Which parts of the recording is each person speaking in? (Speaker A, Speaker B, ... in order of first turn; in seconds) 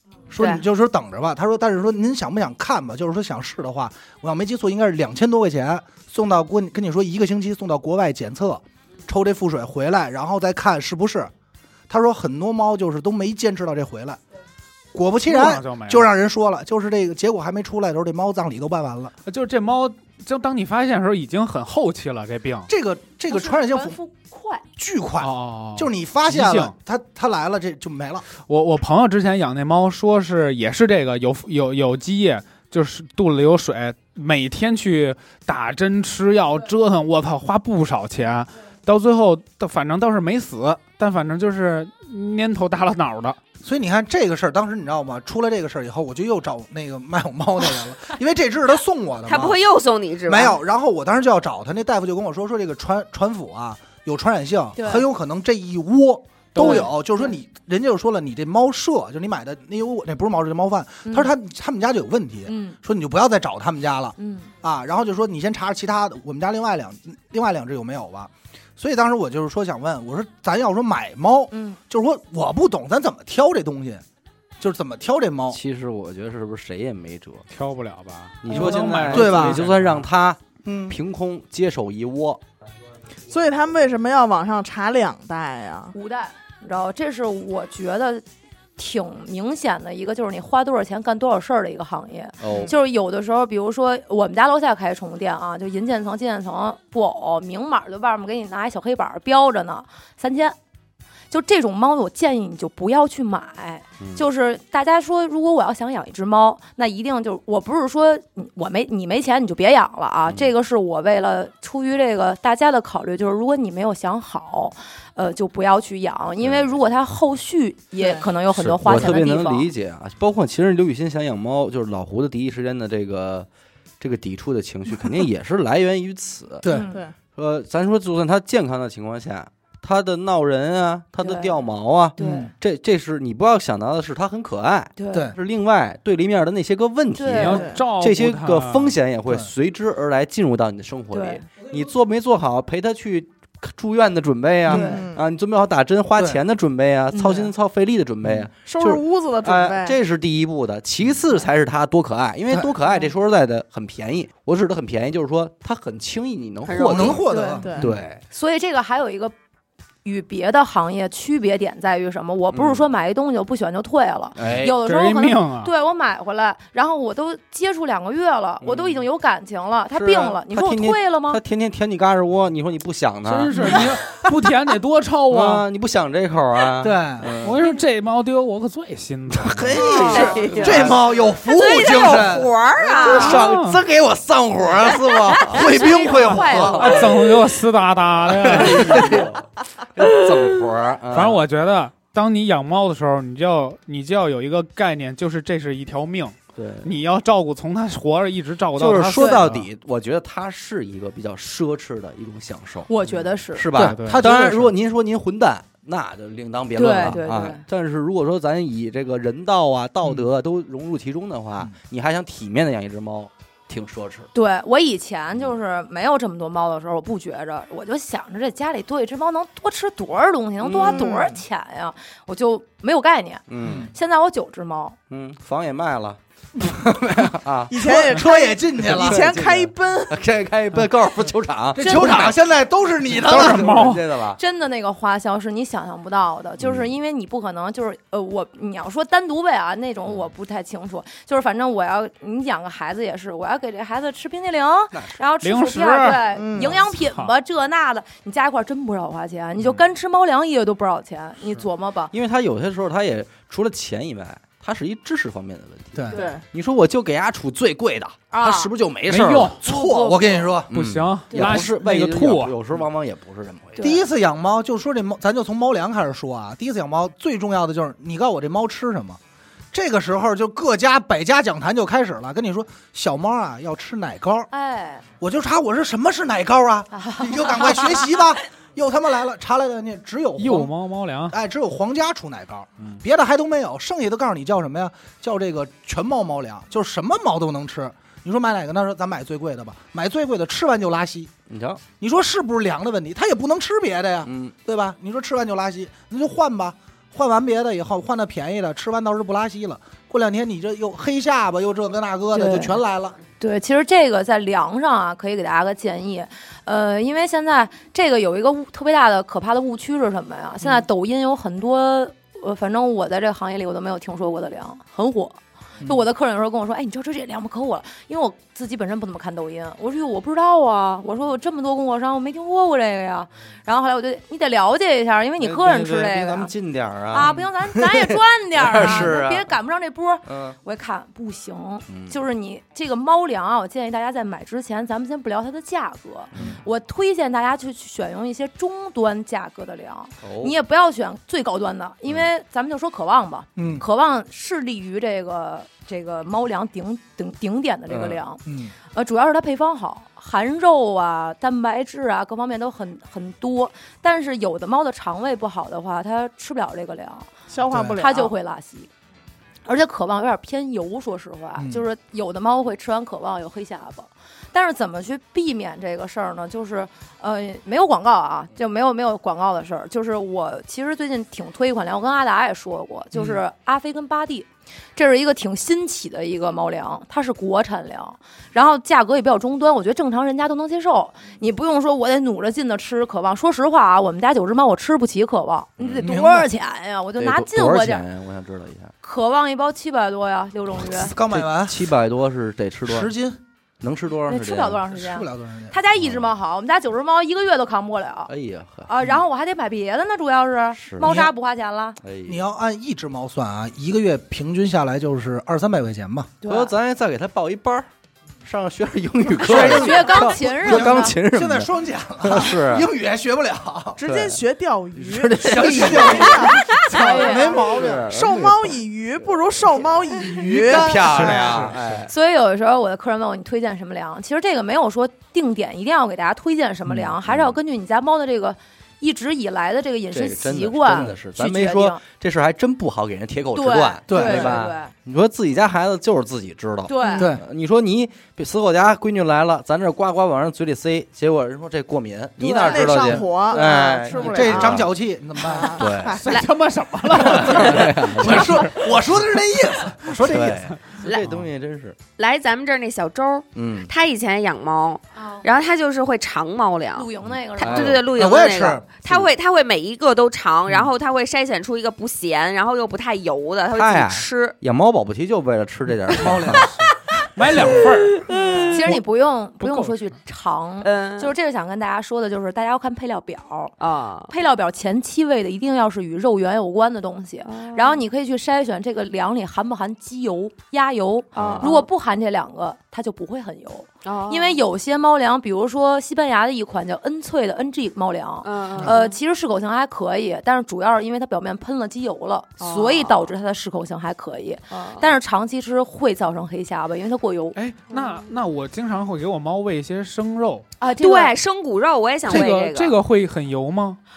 Speaker A: 0.3-11.3, 11.9-14.2, 14.9-19.1, 22.7-24.0, 24.8-28.3, 43.6-49.6, 50.3-74.0, 74.6-75.6, 78.5-79.6, 80.6-81.0, 126.6-126.9, 132.2-132.5, 144.7-145.0, 156.8-157.9, 176.8-177.3, 179.7-183.4, 185.0-187.2, 203.8-204.7, 223.6-223.9, 227.8-229.3, 231.8-233.7, 255.9-256.2, 259.6-260.8, 263.8-269.2, 269.7-274.5, 275.2-280.7, 281.3-291.3, 292.0-303.2, 328.8-329.1, 343.6-343.8, 348.4-348.7, 357.7-358.0, 361.6-361.9, 386.0-386.5, 390.9-391.9, 392.9-393.4, 394.9-395.8, 401.0-401.3, 402.3-406.3, 409.4-414.0, 415.4-418.1, 420.3-421.8, 434.1-434.7, 437.2-437.4, 442.9-443.2, 444.1-445.9, 447.2-450.7, 458.0-458.8, 466.1-466.8
Speaker B: 0.4-0.6, 49.3-50.6, 156.6-157.2, 179.8-183.4, 190.0-190.5, 452.2-457.1, 457.6-464.5, 467.8-468.8, 470.8-471.3, 473.8-474.3, 477.4-478.0, 481.4-481.9, 484.1-484.6, 488.4-489.1, 492.6-493.3, 494.7-495.1, 497.9-498.2, 501.0-502.9
Speaker C: 15.3-16.1, 19.3-22.7, 25.2-26.7, 28.3-43.4, 56.6-56.9, 77.5-80.0, 137.3-138.9, 164.8-165.7, 173.3-175.6, 177.4-179.9, 183.3-183.8, 186.7-189.3, 191.1-199.7, 203.8-204.3, 233.2-234.0, 245.4-246.3, 246.9-247.3, 259.1-259.6, 260.8-262.6, 280.4-281.4, 446.2-448.8, 466.7-468.3, 469.6-470.0, 497.6-500.7, 502.3-504.0
Speaker D: 23.3-24.6, 54.8-55.1, 56.6-57.4, 61.0-61.3, 62.5-62.8, 64.2-64.5, 71.5-71.8, 85.9-88.2, 88.8-100.6, 101.3-119.7, 126.7-127.0, 131.2-131.6, 132.2-132.5, 135.0-135.3, 137.1-137.7, 141.1-141.4, 144.7-145.0, 147.1-147.5, 157.3-157.6, 158.3-159.3, 160.0-171.4, 180.0-180.3, 183.1-183.4, 185.6-187.1, 202.9-203.7, 206.8-207.6, 214.3-225.0, 231.8-232.3, 234.4-252.1, 258.3-258.7, 259.6-260.5, 263.8-264.1, 274.5-275.1, 276.9-278.1, 302.3-302.8, 303.4-326.5, 327.1-357.3, 358.0-358.9, 359.7-388.1, 389.0-391.2, 394.3-398.3, 398.9-402.0, 406.4-406.7, 409.4-411.2, 416.8-417.7, 422.1-432.0, 433.5-434.9, 436.9-437.3, 443.6-443.9, 455.1-455.5, 456.9-458.0, 468.7-473.8, 474.3-497.6, 500.8-501.3
Speaker E: 75.5-77.5, 78.4-82.4, 92.4-92.8, 116.4-116.7, 118.5-123.5, 124.0-126.6, 127.3-157.2, 157.8-158.2, 162.5-162.9, 164.4-164.8, 168.6-169.1, 169.9-173.9, 175.3-177.6, 179.4-181.0, 183.0-185.6, 186.4-187.2, 188.2-191.4, 196.6-196.9, 198.8-202.9, 203.5-214.3, 220.6-221.1, 223.5-223.9, 225.1-227.8, 228.8-232.4, 233.1-234.4, 236.6-236.9, 244.9-245.2, 252.1-259.6, 260.7-264.0, 291.5-291.8, 294.2-294.5, 325.4-329.5, 330.3-330.6, 331.9-332.2, 336.3-336.6, 340.2-340.6, 347.9-348.2, 385.8-386.2, 387.2-388.9, 391.3-393.1, 393.8-394.9, 395.9-396.3, 398.3-398.9, 400.8-401.2, 402.0-402.4, 406.4-407.9, 408.4-412.9, 414.0-414.4, 414.9-416.6, 417.6-419.9, 420.5-422.1, 426.9-427.6, 430.1-444.9, 445.8-446.2, 447.2-448.7, 450.1-452.0, 453.6-453.9, 457.5-458.1, 463.7-466.7, 481.4-481.7
Speaker F: 83.3-85.9, 118.0-118.2, 126.9-127.1, 137.5-137.8, 144.8-145.2, 148.6-150.0, 157.6-157.9, 179.9-180.4, 220.8-221.3, 227.7-230.1, 246.3-246.8, 256.1-256.4, 357.5-358.3, 414.0-421.3, 442.4-444.9, 445.4-446.4, 468.3-468.6